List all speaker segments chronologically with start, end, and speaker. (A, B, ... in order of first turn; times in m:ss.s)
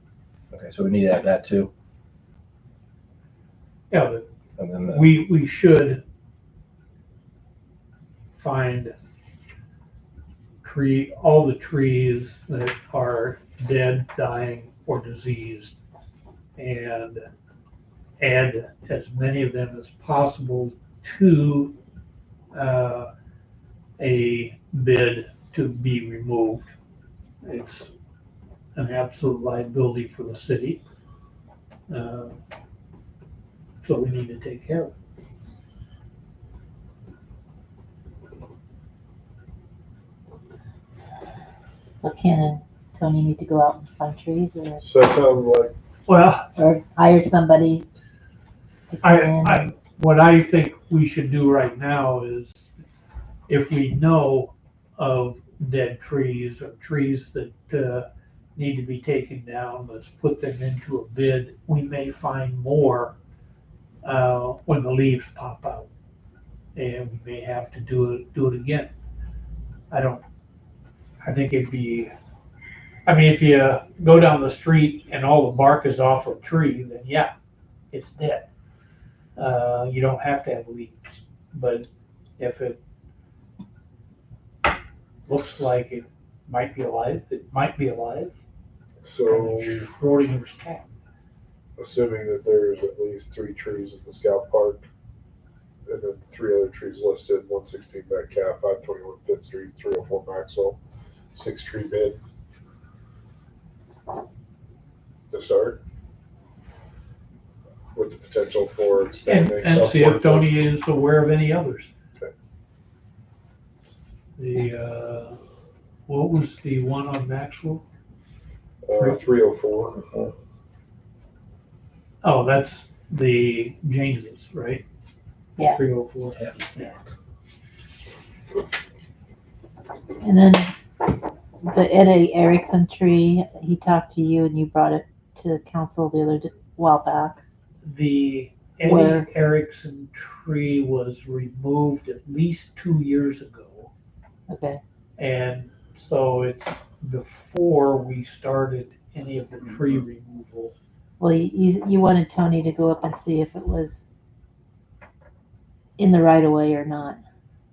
0:00.5-0:01.7 A
0:03.9-0:04.2 B
0:04.6-0:05.1 A
0:04.8-0:06.0 B
0:08.4-0:08.9 B
0:10.6-0:15.8 B
0:16.6-0:17.2 B
0:18.2-0:21.7 B
0:22.5-0:23.1 B
0:24.0-0:26.7 B
0:27.4-0:27.9 B
0:28.7-0:30.8 B
0:31.9-0:32.4 B
0:33.8-0:34.9 B
0:42.0-0:44.8 C
0:44.8-0:45.8 D
0:46.1-0:46.5 B
0:46.5-0:47.8 C
0:48.9-0:49.7 C
0:49.0-0:52.6 B
0:53.5-1:03.2 B
1:04.0-1:05.9 B
1:06.7-1:08.9 B
1:09.9-1:10.2 B
1:11.2-1:12.1 B
1:13.0-1:17.3 B
1:17.9-1:18.5 B
1:19.4-1:21.9 B
1:22.4-1:22.8 B
1:25.3-1:28.3 B
1:29.0-1:29.9 D
1:29.2-1:30.9 B
1:31.8-1:34.8 D
1:35.9-1:40.8 D
1:41.3-1:42.2 D
1:45.3-1:45.8 D
1:47.9-1:50.5 D
1:49.2-1:51.9 B
1:54.4-1:55.4 B
1:56.1-1:57.8 B
1:58.8-2:00.0 D
1:59.0-1:59.2 B
1:59.9-2:00.3 A
2:02.2-2:04.8 B
2:05.6-2:07.0 B
2:10.2-2:10.7 C
2:11.6-2:17.4 C
2:17.8-2:23.9 B
2:18.8-2:19.3 C
2:24.5-2:24.8 C
2:25.2-2:30.7 B
2:31.2-2:34.1 C
2:36.0-2:37.2 C